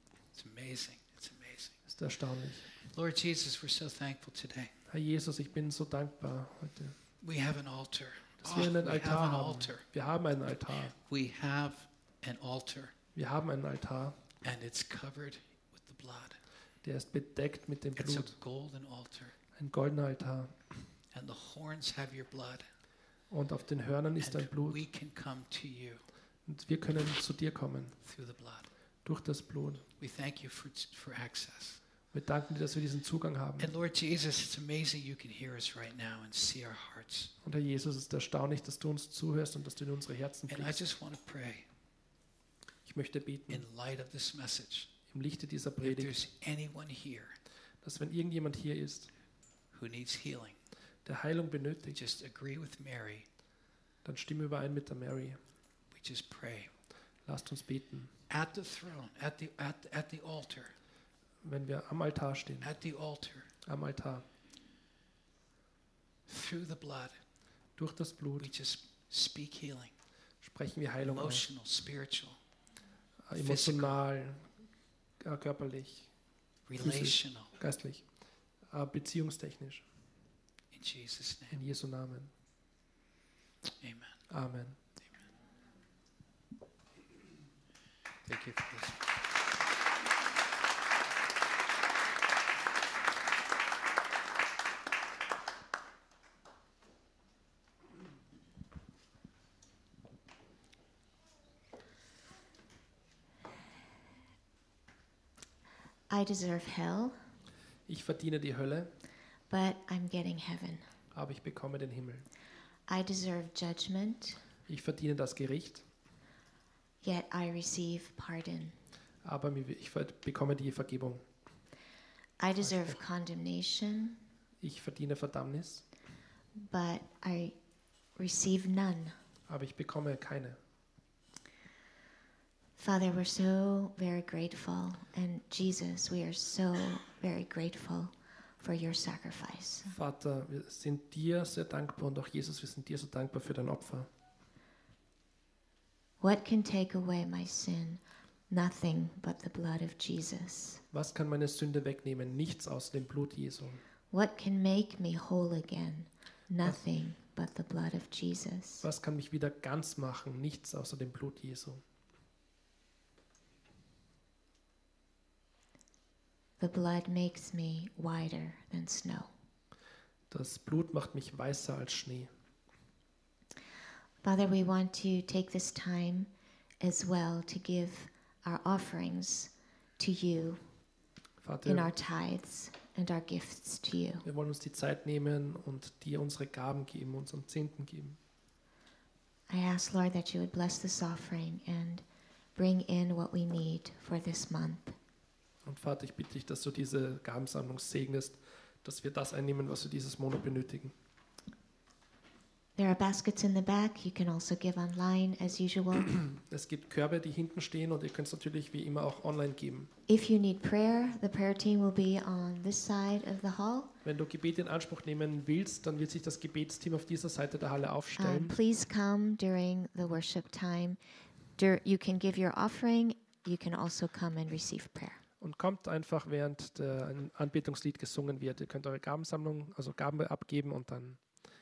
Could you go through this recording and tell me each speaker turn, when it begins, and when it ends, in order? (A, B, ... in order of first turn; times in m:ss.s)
0:00.4-0:01.7 A
0:01.9-0:02.7 B
0:02.8-0:04.7 A
0:04.9-0:06.9 B
0:07.2-0:09.8 A
0:08.4-0:11.0 B
0:11.0-0:12.9 A
0:13.2-0:14.2 B
0:14.4-0:16.4 A
0:16.8-0:18.3 B
0:18.0-0:19.3 A
0:19.6-0:20.6 B
0:21.1-0:22.6 A
0:23.3-0:24.8 B
0:24.2-0:26.0 A
0:26.5-0:28.0 B
0:28.0-0:28.7 A
0:29.0-0:29.8 B
0:30.0-0:31.8 A
0:32.1-0:33.7 B
0:33.6-0:37.3 A
0:37.4-0:40.8 B
0:40.5-0:41.7 A
0:42.9-0:43.6 B
0:43.5-0:44.9 A
0:45.1-0:46.2 B
0:45.8-0:47.4 A
0:47.8-0:49.1 B
0:49.7-0:50.6 A
0:51.0-0:52.0 B
0:51.9-0:53.3 A
0:54.0-0:55.4 B
0:55.9-0:56.7 A
0:57.3-0:58.1 B
0:58.3-1:00.7 A
1:01.4-1:02.7 B
1:02.6-1:03.5 A
1:03.7-1:04.2 B
1:06.3-1:07.2 A
1:07.8-1:08.5 B
1:08.4-1:09.9 A
1:10.4-1:11.5 B
1:11.1-1:12.4 A
1:13.3-1:14.5 B
1:13.3-1:14.0 A
1:15.2-1:16.1 B
1:16.7-1:17.5 A
1:16.8-1:18.0 B
1:18.7-1:19.8 B
1:20.7-1:21.6 A
1:21.5-1:22.3 B
1:23.8-1:24.2 A
1:24.3-1:24.8 B
1:28.3-1:29.0 A
1:46.1-1:47.2 C
1:47.9-1:48.9 B
1:49.5-1:50.8 C
1:51.1-1:52.3 B
1:52.9-1:54.4 C
1:54.7-1:55.8 B
1:57.0-1:58.8 C
1:59.2-2:01.2 B
2:02.4-2:04.2 C
2:02.6-2:03.0 B
2:04.6-2:05.8 B
2:06.6-2:07.6 C
2:08.2-2:09.2 C
2:09.5-2:10.6 B
2:12.8-2:19.9 C
2:19.9-2:24.1 B
2:26.2-2:30.8 C
2:30.9-2:33.8 B
2:34.1-2:38.9 C
2:38.8-2:41.8 B
2:46.6-2:49.3 C
2:50.3-2:52.3 B
2:54.2-2:56.3 C
2:56.8-3:00.6 C
3:01.4-3:01.9 B
3:01.7-3:04.2 C
3:04.2-3:08.2 B
3:09.5-3:12.0 C
3:12.6-3:15.0 C
3:15.7-3:20.9 B
3:22.8-3:26.1 C
3:26.1-3:29.9 B
3:30.1-3:33.9 C
3:34.0-3:38.6 B
3:38.2-3:41.0 C
3:41.6-3:45.2 C
3:45.4-3:51.2 B